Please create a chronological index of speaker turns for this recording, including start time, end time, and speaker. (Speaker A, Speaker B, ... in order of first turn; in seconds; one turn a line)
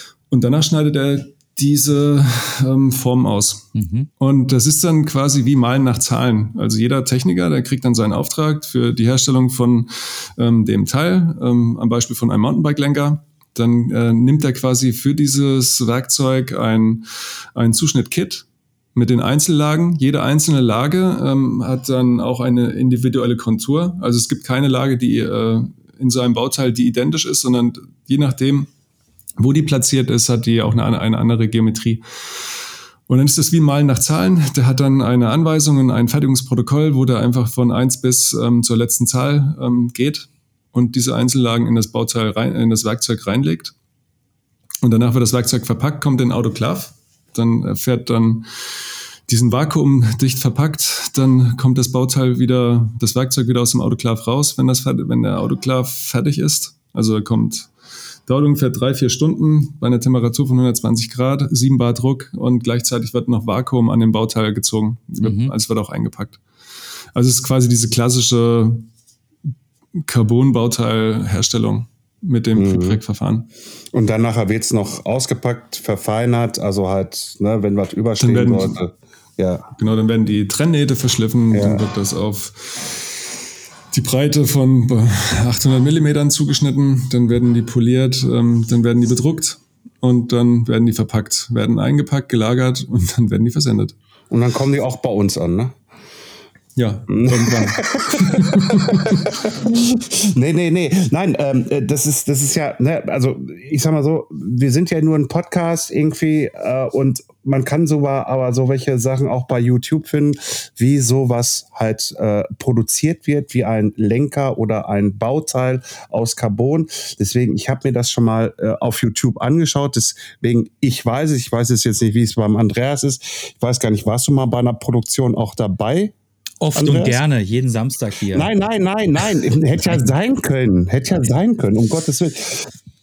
Speaker A: 0.3-28.7
Speaker B: 3.7-4.1
Speaker A: 29.4-32.0
Speaker A: 33.1-43.7
Speaker A: 44.8-48.5
Speaker A: 49.3-57.7
Speaker A: 58.3-66.4
Speaker B: 65.2-65.5
Speaker A: 67.1-68.9
Speaker A: 70.0-73.5
Speaker C: 72.5-73.0
Speaker C: 73.9-79.7
Speaker A: 78.2-78.8
Speaker A: 79.8-83.2
Speaker C: 81.5-81.8
Speaker A: 83.9-93.9
Speaker C: 94.3-95.7
Speaker A: 96.8-99.3
Speaker C: 97.1-126.1
Speaker B: 126.6-128.5
Speaker C: 126.7-127.2
Speaker C: 128.3-132.7